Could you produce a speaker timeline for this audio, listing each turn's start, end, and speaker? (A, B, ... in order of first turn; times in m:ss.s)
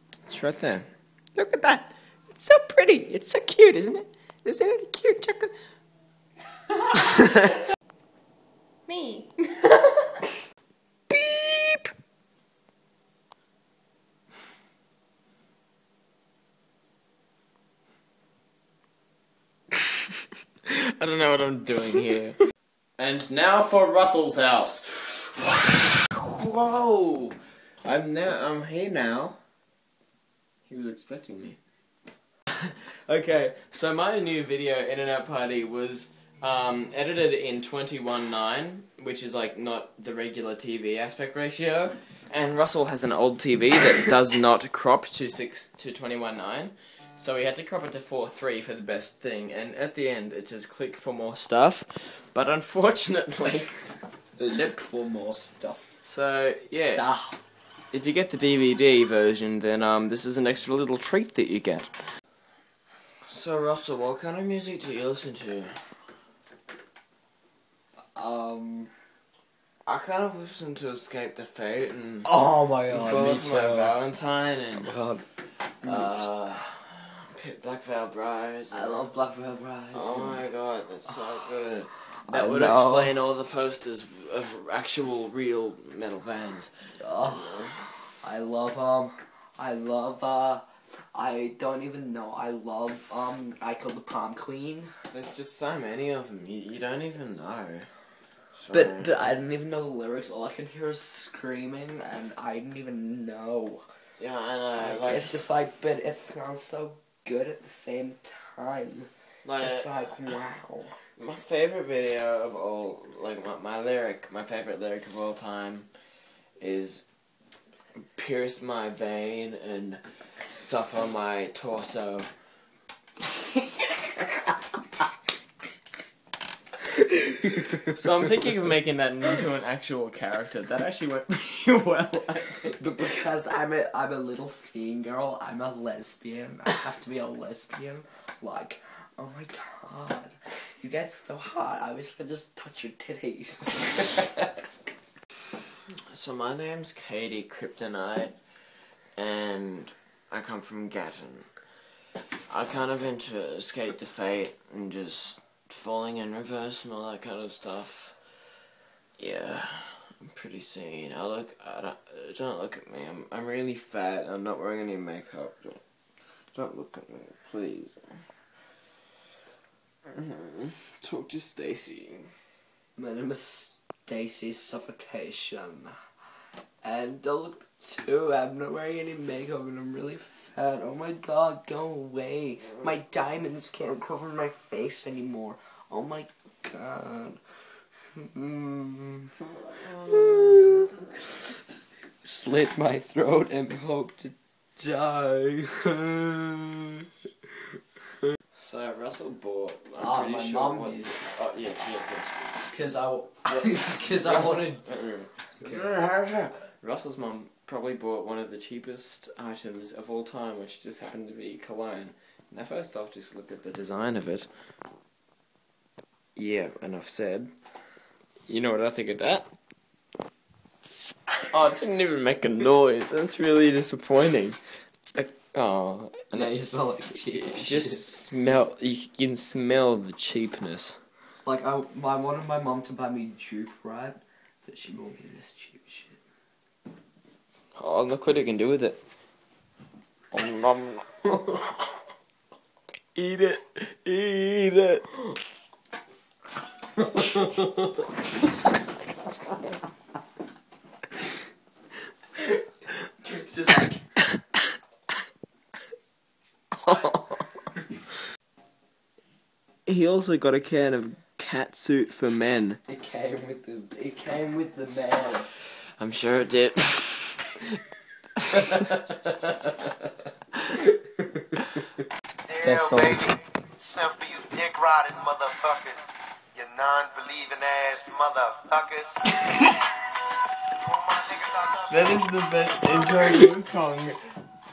0:00.3-0:05.5 A
0:06.9-0:07.5 A
0:08.9-0:10.0 A
0:11.1-0:11.9 A
0:20.7-0:22.4 A
0:23.0-0:29.4 A
0:30.7-0:31.6 A
0:32.6-0:53.7 A
0:54.4-0:55.9 B
0:56.0-0:57.0 A
0:56.7-0:57.4 B
0:57.9-1:01.9 A
1:03.3-1:05.8 A
1:08.1-1:08.9 B
1:09.8-1:12.3 A
1:12.2-1:13.9 B
1:12.9-1:14.9 A
1:14.8-1:15.2 B
1:15.8-1:16.2 B
1:15.8-1:19.0 A
1:18.7-1:20.5 B
1:19.9-1:27.8 A
1:22.3-1:23.1 B
1:27.0-1:30.6 B
1:31.1-1:34.9 B
1:35.1-1:37.9 A
1:38.5-1:39.1 A
1:38.7-1:43.8 B
1:44.2-1:45.4 A
1:44.8-1:50.9 B
1:49.4-1:50.0 A
1:51.2-1:55.9 A
1:56.6-1:57.0 A
1:58.0-2:02.3 A
2:06.9-2:07.9 B
2:07.9-2:12.8 A
2:12.8-2:24.5 B
2:26.1-2:28.3 A
2:29.2-2:31.5 A
2:32.5-2:38.2 A
2:39.2-2:45.8 A
2:46.5-2:48.0 A
2:50.1-2:52.3 A
2:53.0-2:55.9 B
2:56.8-3:07.4 B
3:08.1-3:09.3 B
3:09.8-3:10.8 A
3:09.9-3:11.5 B
3:12.2-3:16.8 B
3:18.6-3:22.6 A
3:20.0-3:21.3 B
3:22.7-3:24.8 B
3:23.5-3:34.5 A
3:36.4-3:37.5 A
3:38.5-3:39.5 A
3:41.5-3:44.6 A
3:45.1-3:46.5 A
3:46.3-3:48.0 B
3:47.3-3:51.0 A
3:51.4-3:56.2 B
3:57.8-3:59.0 A
4:00.3-4:01.1 A
4:01.3-4:01.7 B
4:03.1-4:05.1 A
4:13.2-4:14.0 B
4:16.9-4:17.1 A
4:19.8-4:22.8 A
4:22.9-4:25.5 B
4:26.0-4:27.6 A
4:28.5-4:29.5 B
4:31.3-4:31.6 B
4:32.5-4:39.2 C
4:32.6-4:33.3 B
4:39.5-4:40.0 A
4:40.8-4:42.0 C
4:41.9-4:44.2 A